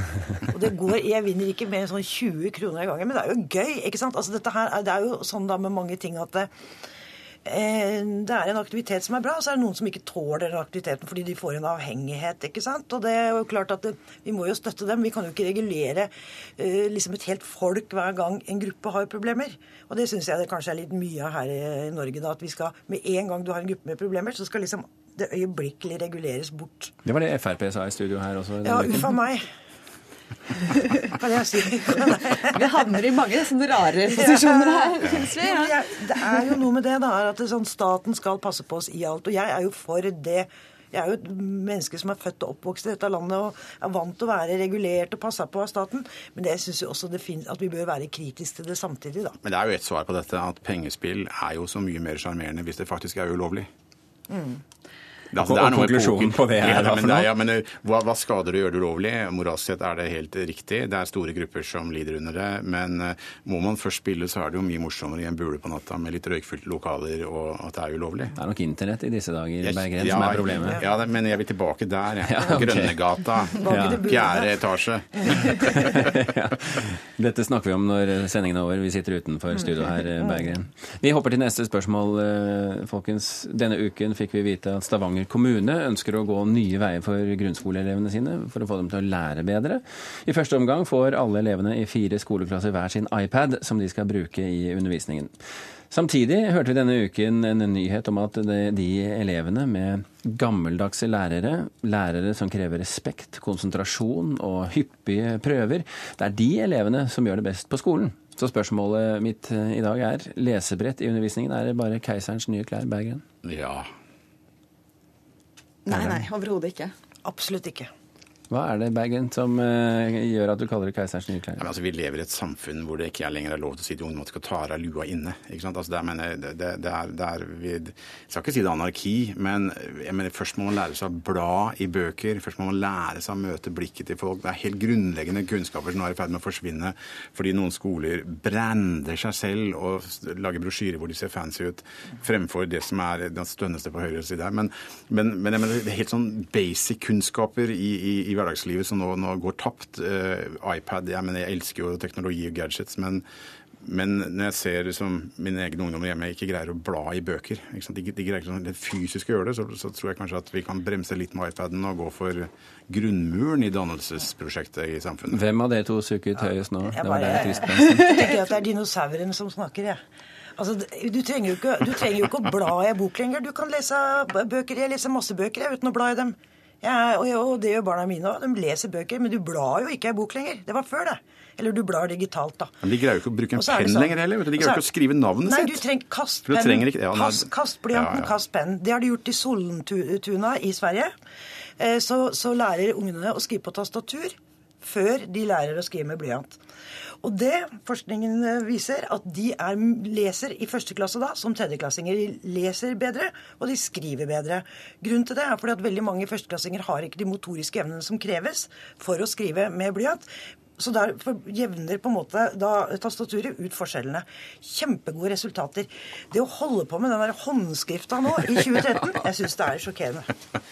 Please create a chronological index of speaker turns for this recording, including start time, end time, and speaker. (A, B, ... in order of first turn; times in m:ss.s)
0:00.5-0:06.5 A
0:07.4-0:27.0 A
0:27.0-0:29.1 B
0:28.6-0:29.5 A
0:31.0-0:32.7 A
0:32.5-0:36.4 C
0:34.1-0:49.4 A
0:35.0-0:35.3 D
0:49.4-0:53.7 D
0:54.3-0:54.6 A
0:55.3-1:08.4 D
0:55.3-0:57.3 B
1:08.4-1:10.8 B
1:09.6-1:16.0 D
1:12.3-1:13.0 B
1:13.6-1:14.6 A
1:13.6-1:14.1 B
1:15.1-1:15.7 A
1:15.4-1:35.3 B
1:35.9-1:53.2 B
1:53.4-1:53.9 D
1:55.9-1:56.9 C
1:55.9-1:56.2 B
1:57.2-1:57.9 A
1:58.5-2:01.7 B
2:01.6-2:33.2 D
2:33.8-2:45.4 D
2:45.3-2:48.1 B
2:46.9-2:50.0 A
2:50.6-3:02.8 A
3:02.8-3:05.8 D
3:03.6-3:04.8 A
3:05.5-3:11.1 A
3:06.4-3:08.3 D
3:11.8-3:16.6 A
3:17.2-3:40.3 A